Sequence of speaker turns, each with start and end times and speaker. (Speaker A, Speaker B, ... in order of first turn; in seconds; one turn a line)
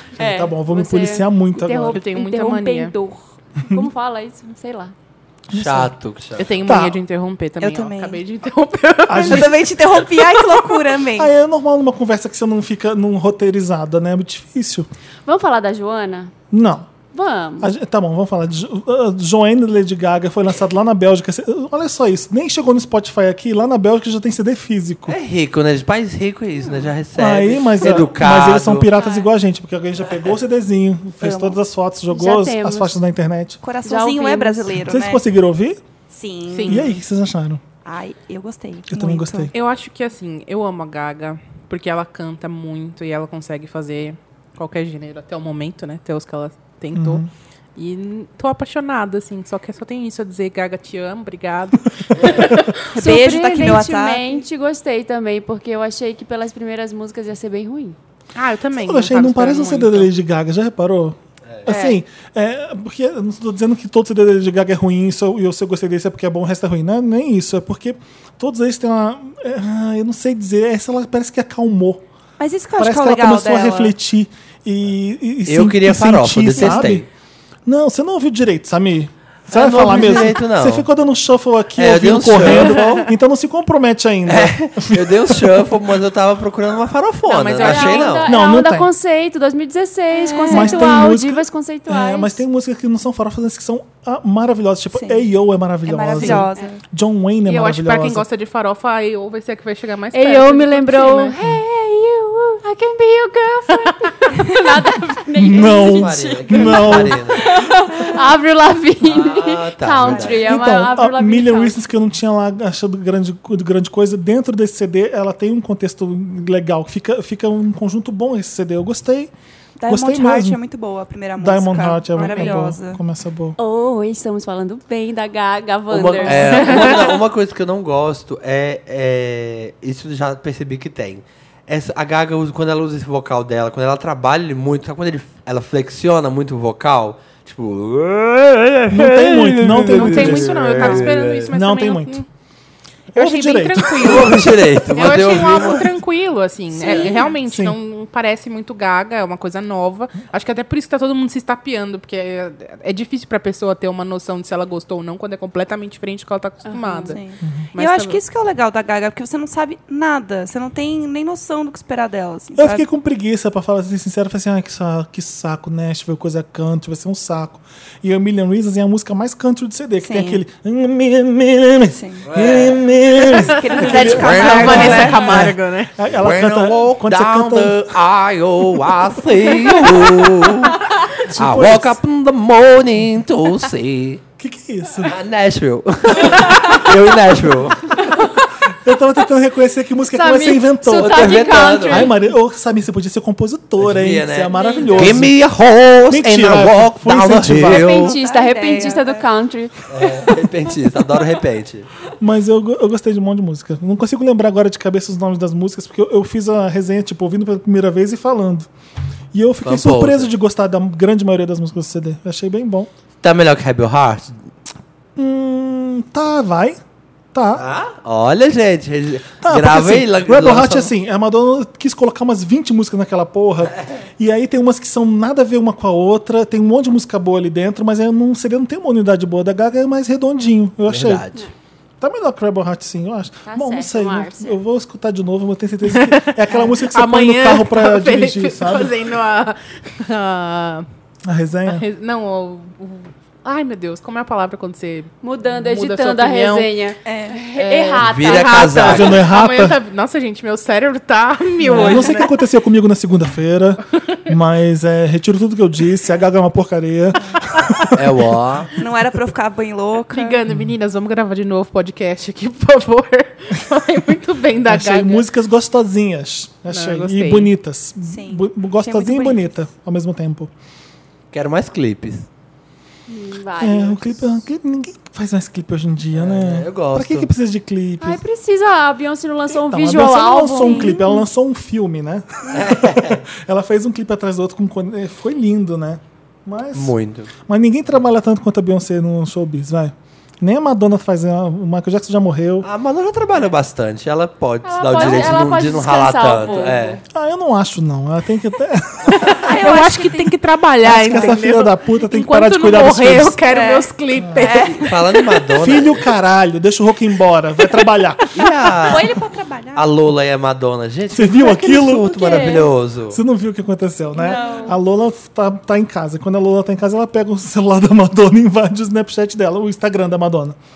Speaker A: 0.2-2.0
Speaker B: 0.2-4.9
Speaker C: 1.9-2.9
Speaker A: 5.5-5.9
Speaker D: 5.5-6.6
Speaker C: 6.4-10.8
Speaker A: 6.6-7.0
Speaker E: 7.6-8.2
Speaker A: 9.1-9.6
Speaker E: 9.2-11.3
Speaker A: 11.2-14.9
Speaker B: 15.2-16.3
Speaker A: 16.5-16.9
Speaker B: 17.1-17.7
Speaker A: 17.6-25.2
Speaker D: 25.1-28.9
Speaker A: 27.1-33.6
Speaker B: 28.9-29.2
Speaker E: 31.2-31.6
Speaker B: 32.1-32.9
Speaker E: 33.6-35.2
Speaker B: 33.8-34.8
Speaker A: 34.8-35.8
Speaker E: 36.1-37.0
Speaker C: 36.5-36.9
Speaker A: 36.6-37.6
Speaker E: 37.8-39.5
Speaker A: 38.9-39.5
Speaker C: 39.5-47.2
Speaker A: 46.9-47.3
Speaker C: 47.8-52.8
Speaker B: 52.9-58.0
Speaker E: 52.9-54.2
Speaker C: 58.3-60.1
Speaker A: 58.8-72.0
Speaker C: 61.7-62.0
Speaker E: 72.4-73.9
Speaker A: 72.8-77.0
Speaker D: 75.5-77.1
Speaker A: 77.7-85.7
Speaker D: 79.5-80.8
Speaker D: 81.8-83.0
Speaker D: 84.3-88.3
Speaker C: 87.2-88.2
Speaker B: 87.6-92.4
Speaker A: 88.2-88.9
Speaker E: 90.1-91.0
Speaker A: 90.5-98.2
Speaker E: 94.9-95.2
Speaker E: 95.8-96.8
Speaker C: 97.5-101.3
Speaker B: 100.1-111.8
Speaker A: 105.3-107.2
Speaker D: 105.7-107.7
Speaker D: 109.0-110.6
Speaker A: 110.2-119.3
Speaker E: 119.8-123.0
Speaker A: 119.9-120.6
Speaker A: 121.3-123.6
Speaker B: 122.3-122.6
Speaker B: 123.6-127.0
Speaker D: 125.9-141.5
Speaker E: 126.2-126.5
Speaker A: 138.9-142.2
Speaker C: 139.9-142.2
Speaker A: 143.1-145.1
Speaker C: 143.1-157.2
Speaker D: 144.0-145.9
Speaker E: 146.8-147.3
Speaker B: 146.8-147.2
Speaker A: 147.4-147.8
Speaker B: 156.6-157.2
Speaker E: 157.1-162.8
Speaker C: 157.7-158.2
Speaker A: 162.6-177.9
Speaker E: 170.0-170.4
Speaker E: 171.9-172.3
Speaker D: 172.3-172.8
Speaker E: 173.2-175.4
Speaker C: 173.3-175.9
Speaker D: 173.9-175.0
Speaker D: 176.1-180.8
Speaker A: 181.3-182.0
Speaker D: 181.3-184.2
Speaker A: 184.4-185.1
Speaker D: 185.0-188.0
Speaker B: 188.0-188.3
Speaker A: 188.7-195.3
Speaker B: 190.1-192.2
Speaker D: 190.9-192.1
Speaker D: 193.8-198.1
Speaker B: 194.5-195.2
Speaker A: 196.1-198.1
Speaker E: 197.6-199.3
Speaker B: 197.7-200.7
Speaker D: 199.9-201.9
Speaker A: 202.2-208.7
Speaker A: 209.3-212.9
Speaker D: 209.6-210.3
Speaker D: 213.2-214.3
Speaker A: 215.2-216.8
Speaker A: 217.3-217.6
Speaker D: 217.5-220.9
Speaker A: 219.4-231.2
Speaker D: 230.9-231.5
Speaker A: 232.0-238.9
Speaker B: 233.4-234.6
Speaker C: 235.8-240.8
Speaker A: 241.2-241.8
Speaker C: 241.7-246.7
Speaker B: 245.2-249.0
Speaker E: 247.0-247.4
Speaker C: 247.5-252.3
Speaker D: 248.0-249.3
Speaker A: 248.9-249.8
Speaker A: 251.6-258.4
Speaker D: 257.9-258.7
Speaker E: 258.8-260.4
Speaker C: 260.1-265.2
Speaker A: 264.6-270.5
Speaker C: 266.7-267.5
Speaker E: 268.0-269.6
Speaker D: 271.3-272.3
Speaker B: 273.1-274.3
Speaker A: 273.6-278.2
Speaker D: 276.1-277.3
Speaker B: 278.0-281.2
Speaker A: 279.5-292.7
Speaker E: 280.6-281.0
Speaker D: 282.5-283.2
Speaker D: 286.7-287.3
Speaker D: 292.6-297.0
Speaker B: 294.6-297.0
Speaker E: 296.4-296.7
Speaker A: 297.1-299.4
Speaker C: 299.2-304.9
Speaker E: 299.2-300.3
Speaker A: 300.8-303.4
Speaker E: 301.0-301.3
Speaker E: 303.4-305.3
Speaker A: 304.2-304.5
Speaker D: 304.8-306.0
Speaker A: 305.5-308.2
Speaker D: 308.3-309.1
Speaker E: 308.8-309.9
Speaker D: 309.7-313.2
Speaker A: 311.1-312.3
Speaker B: 312.1-312.7
Speaker A: 313.1-320.6
Speaker B: 314.2-314.8
Speaker E: 314.2-314.7